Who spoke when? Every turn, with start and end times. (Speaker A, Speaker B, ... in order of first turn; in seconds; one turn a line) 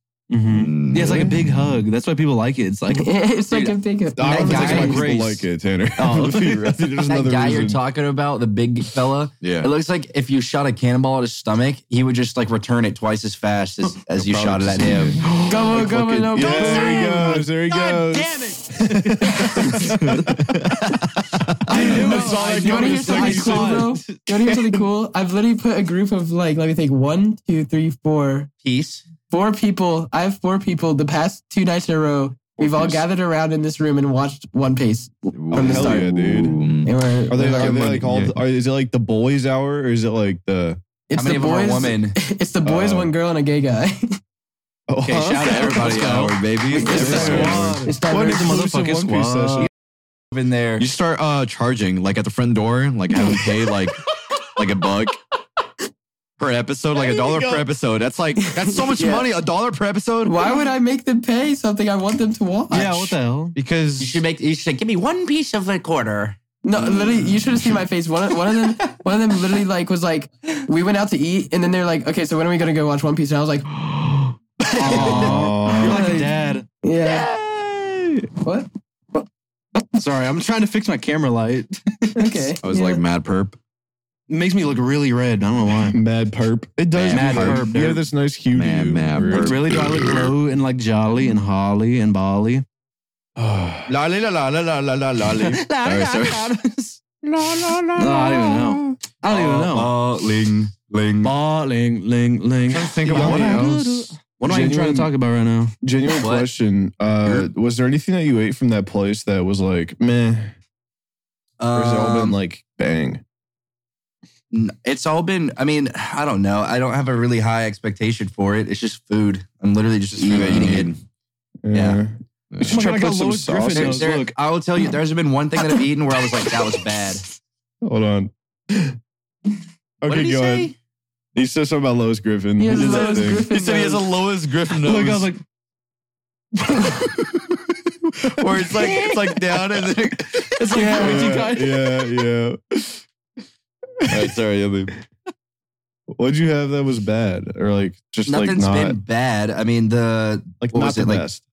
Speaker A: 0.3-3.8
Speaker B: 0.5-1.3
Speaker C: 1.0-1.4
Speaker D: 2.9-5.0
Speaker C: 4.2-7.8
Speaker E: 4.2-5.1
Speaker A: 4.4-5.5
Speaker A: 6.0-6.8
Speaker E: 7.0-15.2
Speaker B: 9.4-9.7
Speaker B: 14.2-16.2
Speaker C: 15.2-20.8
Speaker D: 15.4-17.4
Speaker A: 16.3-21.1
Speaker B: 19.8-22.4
Speaker C: 21.7-23.9
Speaker A: 21.7-24.2
Speaker D: 21.9-28.5
Speaker C: 24.5-24.8
Speaker E: 28.6-29.1
Speaker D: 29.3-38.0
Speaker C: 32.6-33.0
Speaker B: 35.4-36.9
Speaker C: 35.5-36.6
Speaker C: 37.3-40.8
Speaker B: 37.5-38.4
Speaker D: 41.1-44.2
Speaker E: 41.1-42.2
Speaker C: 42.6-43.1
Speaker C: 44.9-45.6
Speaker A: 45.0-49.7
Speaker B: 45.3-47.8
Speaker E: 45.5-47.5
Speaker D: 46.8-48.6
Speaker C: 46.9-49.7
Speaker E: 50.3-50.9
Speaker B: 50.8-54.0
Speaker B: 54.5-55.2
Speaker B: 56.4-60.6
Speaker C: 57.0-57.6
Speaker D: 58.5-59.3
Speaker D: 60.2-63.2
Speaker A: 62.7-63.6
Speaker B: 63.5-64.2
Speaker E: 64.0-66.4
Speaker D: 66.6-73.7
Speaker B: 66.8-67.4
Speaker B: 74.6-75.5
Speaker A: 74.7-76.7
Speaker C: 75.0-76.0
Speaker D: 75.7-77.3
Speaker B: 77.1-78.3
Speaker D: 78.4-79.2
Speaker A: 79.9-82.5
Speaker D: 82.2-83.0
Speaker B: 82.6-83.6
Speaker A: 84.3-86.0
Speaker C: 85.9-89.6
Speaker B: 86.9-88.0
Speaker A: 87.1-88.0
Speaker B: 88.5-90.3
Speaker A: 89.2-92.6
Speaker C: 93.4-93.9
Speaker B: 93.9-96.5
Speaker A: 95.3-97.0
Speaker B: 97.2-99.0
Speaker A: 98.0-99.9
Speaker E: 99.3-101.3
Speaker A: 101.2-105.8
Speaker B: 102.7-104.1
Speaker C: 103.1-103.7
Speaker C: 104.4-105.1
Speaker C: 105.8-110.5
Speaker E: 106.2-106.5
Speaker E: 111.6-112.4
Speaker C: 111.7-113.2
Speaker E: 114.5-120.9
Speaker B: 120.2-121.0
Speaker C: 121.6-124.1
Speaker E: 121.7-122.0
Speaker B: 122.5-122.9
Speaker A: 122.6-124.3
Speaker E: 123.7-127.2
Speaker C: 127.8-129.0
Speaker C: 130.0-130.7
Speaker E: 130.1-130.7
Speaker C: 131.3-133.5
Speaker D: 132.6-134.1
Speaker B: 132.8-135.3
Speaker A: 134.7-135.4
Speaker A: 136.6-137.5
Speaker B: 138.2-141.3
Speaker A: 138.7-139.8
Speaker A: 140.6-141.9
Speaker D: 140.8-141.2
Speaker C: 140.9-142.9
Speaker C: 144.0-144.3
Speaker B: 144.1-144.9
Speaker C: 146.1-149.0
Speaker E: 148.3-151.2
Speaker C: 150.6-151.4